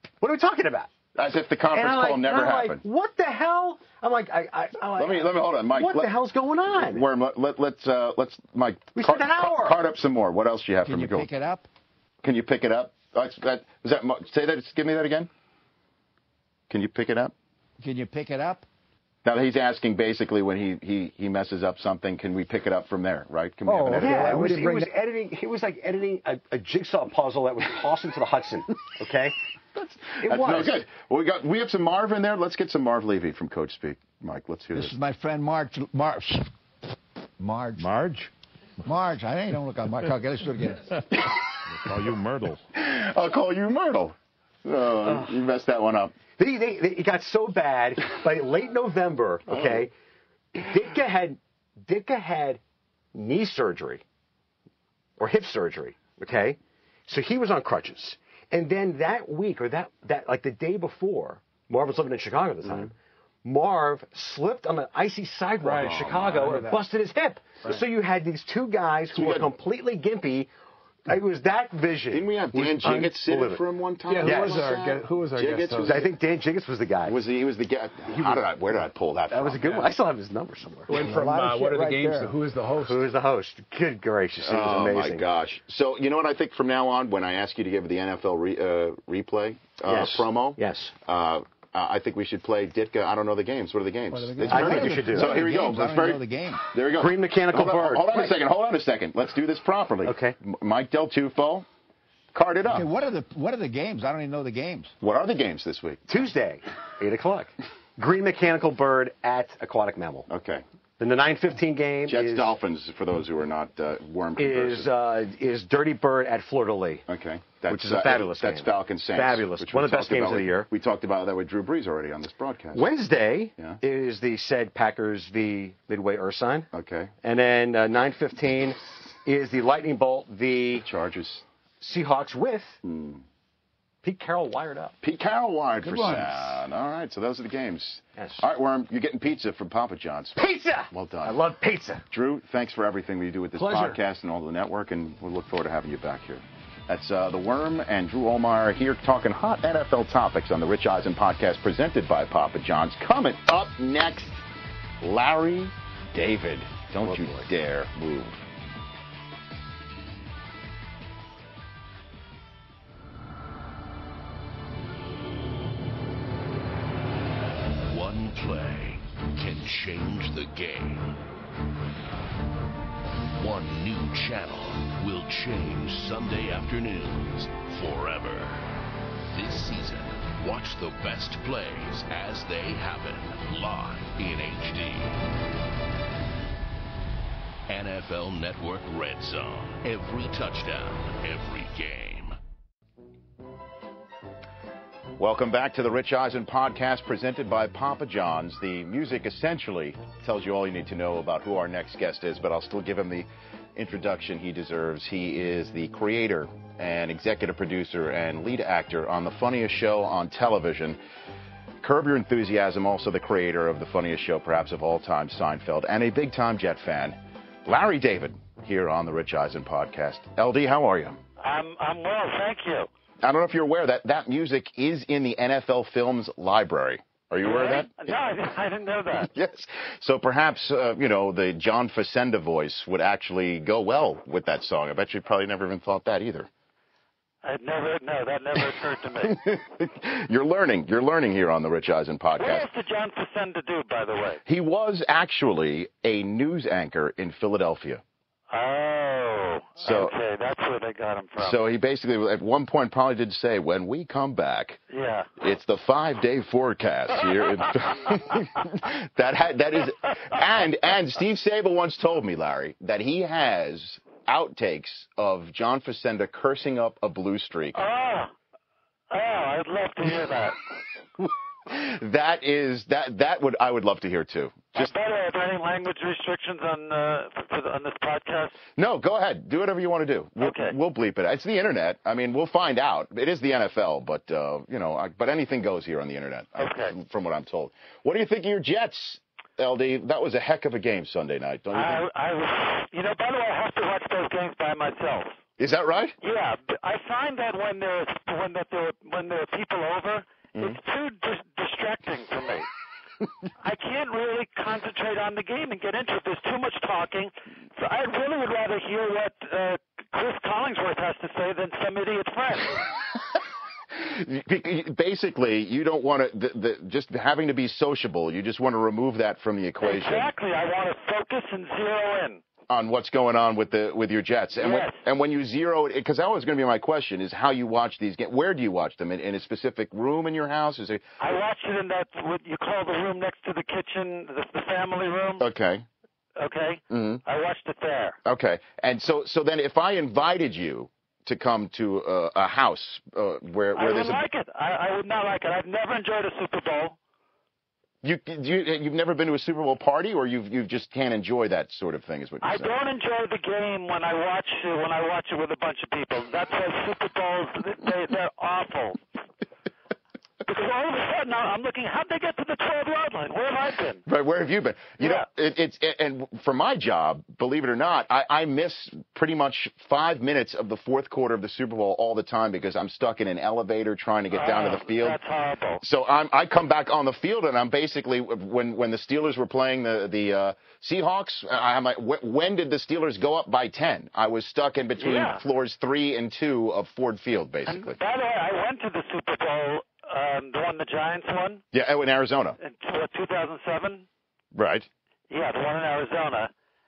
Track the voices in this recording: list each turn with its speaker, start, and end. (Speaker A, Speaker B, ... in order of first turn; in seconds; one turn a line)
Speaker A: 0.2-0.9
Speaker B: 1.1-2.8
Speaker A: 1.7-7.0
Speaker B: 5.0-6.1
Speaker B: 6.7-11.3
Speaker A: 8.9-9.8
Speaker C: 10.8-11.7
Speaker B: 12.2-15.3
Speaker B: 16.7-17.3
Speaker C: 17.8-18.6
Speaker B: 19.2-24.5
Speaker C: 23.6-24.9
Speaker A: 23.9-29.4
Speaker B: 29.8-35.0
Speaker A: 30.1-30.8
Speaker C: 34.7-36.5
Speaker C: 37.4-38.3
Speaker C: 38.8-41.2
Speaker C: 41.9-42.5
Speaker B: 42.7-46.1
Speaker A: 46.4-49.9
Speaker A: 50.5-52.6
Speaker A: 53.1-54.0
Speaker A: 55.2-62.9
Speaker A: 63.4-70.5
Speaker D: 65.6-66.8
Speaker B: 65.8-66.5
Speaker B: 69.1-69.5
Speaker A: 71.1-73.6
Speaker B: 72.1-76.1
Speaker D: 74.1-76.1
Speaker A: 74.2-74.8
Speaker A: 75.8-77.2
Speaker B: 77.0-79.9
Speaker A: 78.1-78.4
Speaker A: 79.3-81.1
Speaker D: 80.9-83.1
Speaker C: 80.9-82.3
Speaker A: 82.8-85.2
Speaker B: 84.4-101.7
Speaker A: 89.8-90.9
Speaker D: 94.1-95.2
Speaker C: 94.4-96.7
Speaker A: 94.5-95.4
Speaker A: 96.9-98.4
Speaker A: 100.0-100.3
Speaker B: 102.3-102.9
Speaker C: 102.7-104.9
Speaker B: 105.0-106.2
Speaker A: 106.1-110.3
Speaker B: 110.3-110.6
Speaker A: 111.0-112.6
Speaker B: 112.1-114.9
Speaker A: 114.4-117.0
Speaker B: 117.1-122.9
Speaker A: 117.7-120.7
Speaker A: 122.7-126.7
Speaker B: 126.7-127.1
Speaker A: 127.2-130.9
Speaker B: 130.8-131.4
Speaker A: 131.8-132.8
Speaker B: 132.8-133.2
Speaker A: 134.0-134.9
Speaker B: 135.0-141.4
Speaker D: 135.8-136.6
Speaker A: 138.2-138.4
Speaker A: 140.4-142.0
Speaker B: 142.1-154.4
Speaker D: 143.6-144.0
Speaker B: 155.0-158.4
Speaker A: 157.0-157.4
Speaker E: 167.8-171.2
Speaker E: 173.3-178.6
Speaker E: 179.3-185.2
Speaker E: 187.7-192.3
Speaker B: 195.2-211.0
Speaker B: 211.8-221.2
Speaker F: 221.4-222.9
Speaker B: 223.2-228.2
Speaker F: 227.4-229.3
Speaker B: 229.1-236.5
Speaker F: 237.4-239.4
Speaker B: 239.2-242.7
Speaker F: 242.4-244.4
Speaker B: 244.4-248.0
Speaker F: 248.5-251.6
Speaker B: 249.8-250.1
Speaker B: 251.4-254.8
Speaker F: 254.9-255.3
Speaker B: 255.4-267.8
Speaker F: 267.7-268.3
Speaker F: 269.1-270.6
Speaker B: 271.2-274.9
Speaker F: 274.7-278.6
Speaker B: 278.8-292.0
Speaker F: 280.4-280.8
Speaker F: 286.6-286.9
Speaker F: 291.7-295.4
Speaker B: 295.6-296.2
Speaker F: 296.2-302.7
Speaker F: 303.6-312.8
Speaker B: 313.9-320.3
Speaker F: 319.8-322.4
Speaker B: 322.7-331.0
Speaker F: 324.6-325.0
Speaker F: 331.2-335.5
Speaker B: 335.4-335.9
Speaker F: 336.4-338.2
Speaker B: 336.9-337.2
Speaker B: 338.2-344.2
Speaker F: 343.7-347.0
Speaker B: 348.0-352.7
Speaker F: 352.4-359.0
Speaker F: 360.4-364.0
Speaker B: 364.1-375.2
Speaker F: 365.0-365.3
Speaker F: 374.3-375.8
Speaker B: 375.8-388.0
Speaker F: 385.0-385.4
Speaker F: 387.6-391.6
Speaker B: 391.7-392.6
Speaker F: 392.6-394.1
Speaker B: 394.5-394.9
Speaker F: 395.3-396.5